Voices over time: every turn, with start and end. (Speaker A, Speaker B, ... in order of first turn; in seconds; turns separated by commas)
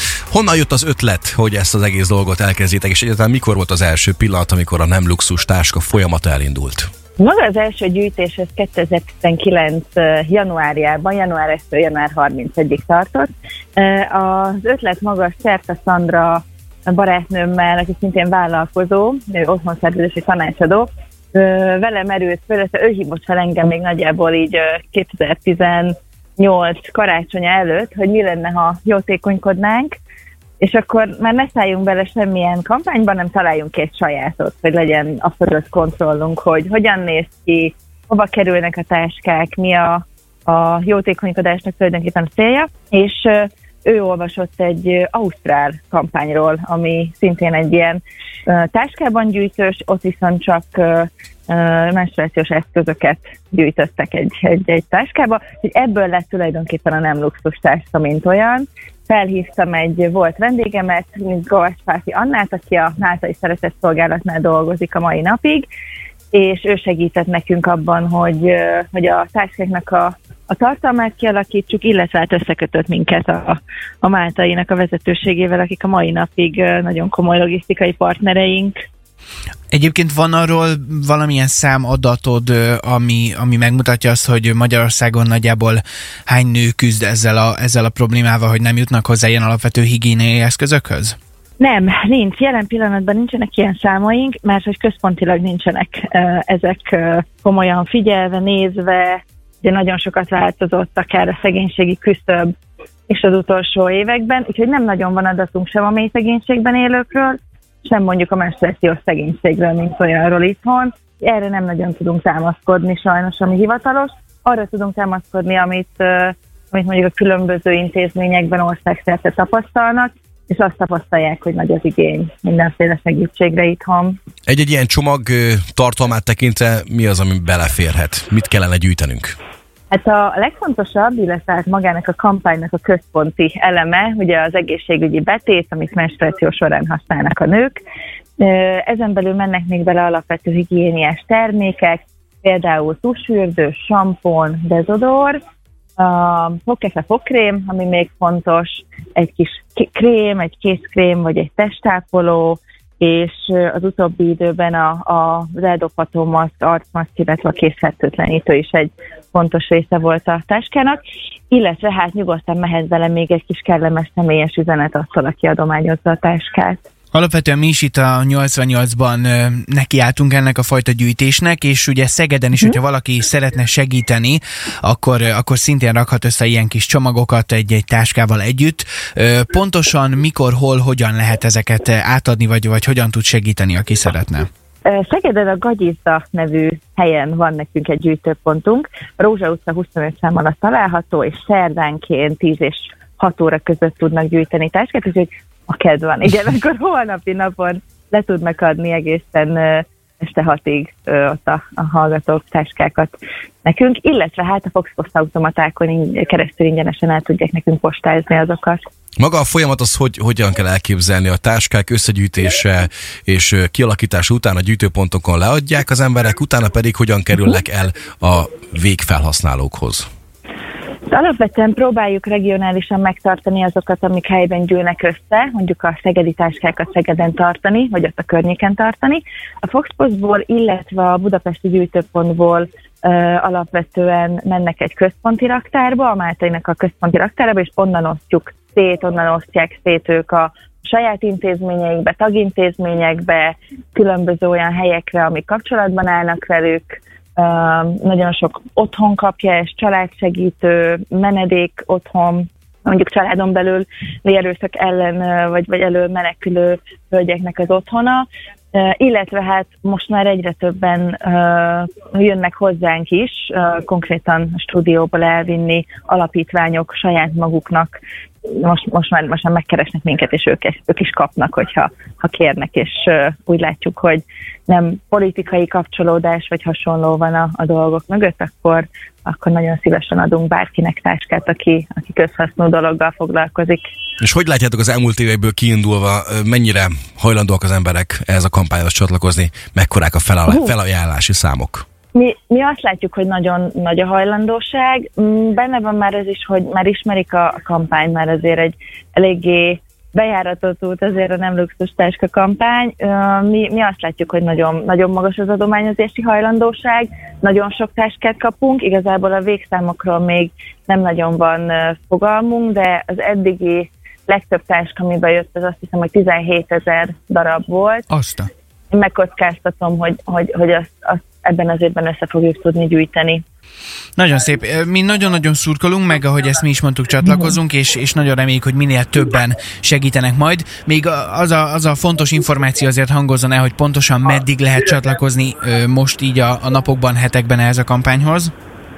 Speaker A: 0.3-6.9, Speaker B: 7.2-30.0, Speaker B: 30.6-65.7, Speaker B: 66.3-78.8, Speaker C: 79.7-91.2, Speaker B: 91.6-102.5, Speaker B: 103.1-124.2, Speaker A: 124.5-129.3, Speaker B: 129.9-137.8, Speaker B: 138.4-145.4, Speaker B: 146.0-161.0, Speaker B: 161.5-166.8, Speaker C: 167.1-184.5, Speaker B: 184.8-208.8, Speaker A: 209.2-220.1, Speaker B: 221.1-283.8, Speaker A: 284.2-291.8, Speaker B: 292.1-318.1, Speaker C: 318.1-318.5, Speaker B: 318.9-323.4, Speaker C: 324.2-338.5, Speaker B: 327.2-327.5